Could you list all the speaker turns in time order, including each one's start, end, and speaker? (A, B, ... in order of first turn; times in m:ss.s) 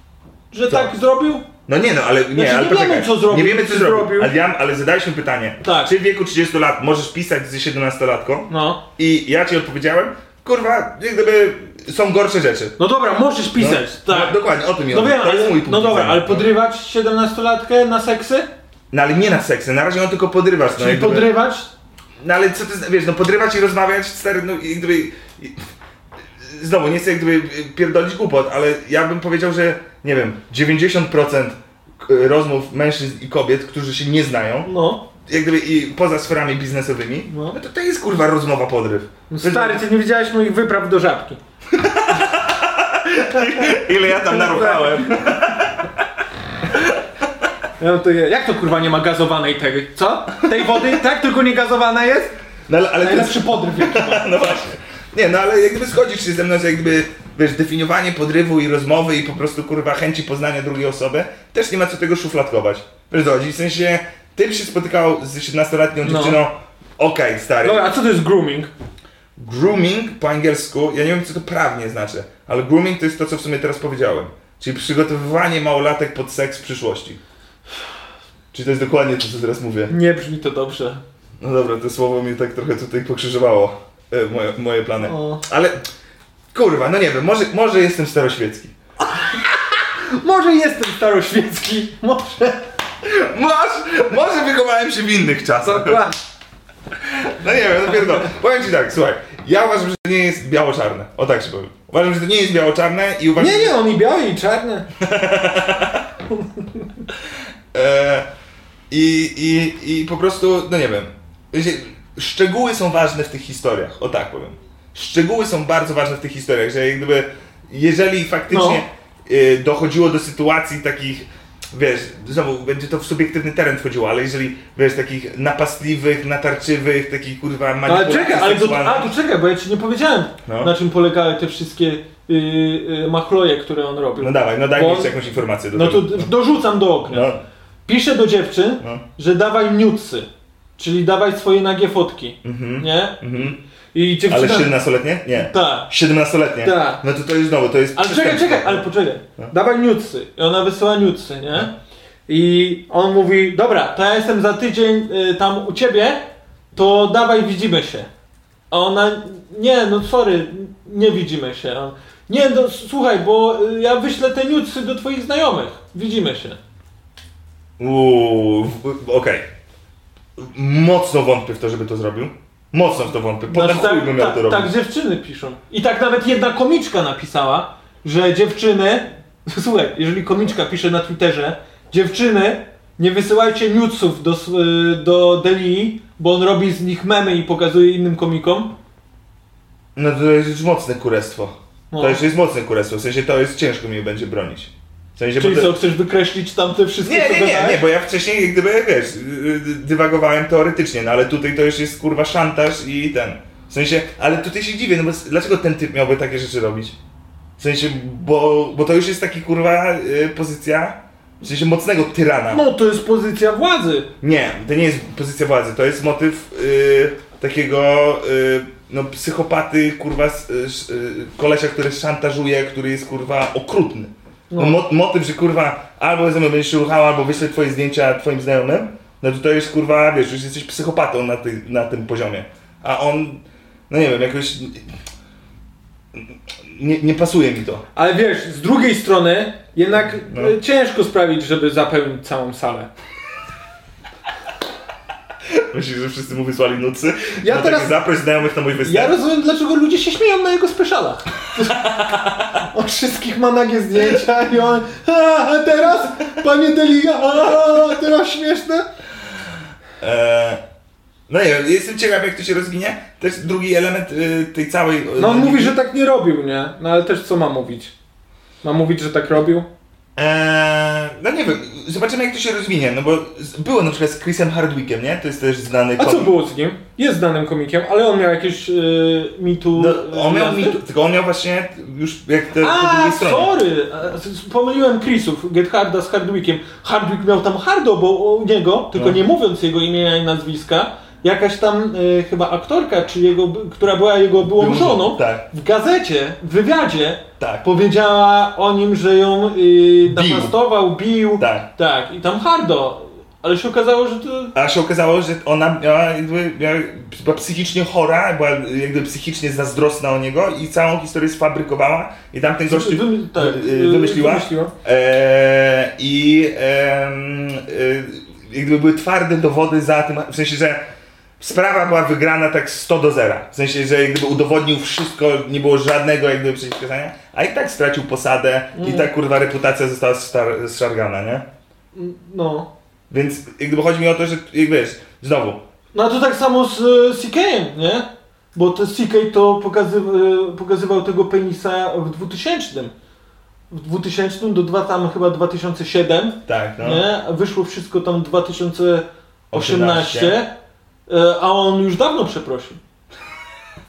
0:00.5-0:01.4 A
0:01.7-0:12.8 B
0:02.3-0:04.3 A
0:05.6-0:05.9 A
0:08.5-0:08.8 A
0:12.8-0:14.4 A
0:13.6-0:16.5 B
0:14.9-0:18.5 A
0:18.9-0:21.3 B
0:20.8-0:21.7 A
0:22.2-0:25.6 B
0:26.4-0:34.7 B
0:34.6-0:35.0 A
0:35.2-0:39.8 B
0:37.3-0:37.6 A
0:39.3-0:41.4 A
0:41.7-0:46.0 B
0:43.3-0:45.2 A
0:46.7-0:47.0 B
0:47.8-0:52.4 A
0:52.7-1:07.9 B
0:53.0-0:54.6 A
1:06.0-1:06.4 A
1:07.6-1:08.7 A
1:09.4-1:17.2 B
1:18.5-1:19.9 B
1:19.9-1:21.0 A
1:21.4-1:25.8 B
1:25.0-1:25.4 A
1:26.5-1:28.7 B
1:29.0-1:32.7 A
1:33.0-1:36.1 B
1:35.6-1:36.2 A
1:37.0-1:43.8 B
1:43.4-1:44.9 A
1:45.0-1:46.0 B
1:46.3-1:46.8 A
1:47.7-1:48.3 B
1:48.9-2:09.1 B
1:58.5-1:58.8 A
2:07.8-2:15.2 A
2:10.4-2:10.7 B
2:14.2-2:16.3 B
2:15.7-2:17.3 A
2:17.1-2:17.4 B
2:17.8-2:23.2 A
2:22.4-2:23.6 B
2:23.9-2:24.7 A
2:24.3-2:28.9 B
2:25.4-2:25.9 A
2:26.6-2:27.0 A
2:27.9-2:31.7 A
2:32.3-2:38.1 A
2:38.7-2:46.6 A
2:47.8-2:49.5 B
2:50.4-2:54.7 B
2:53.5-3:08.7 A
3:10.0-3:15.7 B
3:11.9-3:12.2 A
3:15.4-3:17.8 A
3:17.0-3:27.0 B
3:27.6-3:32.6 B
3:32.5-3:34.1 A
3:34.2-3:54.8 B
3:44.5-3:44.8 A
3:56.1-3:57.8 B
3:57.9-4:02.9 A
4:00.2-4:00.5 B
4:05.5-4:09.2 B
4:07.4-4:08.0 A
4:08.8-4:18.8 A
4:20.0-4:20.6 B
4:21.3-4:25.8 B
4:25.2-4:27.9 A
4:28.6-4:29.7 A
4:30.2-4:36.3 B
4:36.0-4:40.8 A
4:39.8-4:43.5 B
4:42.6-5:04.5 A
4:48.9-4:49.2 B
4:54.6-4:55.4 B
4:57.4-4:57.6 B
5:00.1-5:00.6 B
5:01.4-5:01.7 B
5:04.5-5:20.8 B
5:12.6-5:14.7 A
5:21.4-5:31.4 B
5:28.7-5:29.1 A
5:31.9-5:32.7 A
5:33.1-5:35.6 B
5:35.9-5:42.9 A
5:43.7-5:50.5 A
5:46.5-5:47.0 B
5:49.5-5:50.4 B
5:51.1-5:52.8 A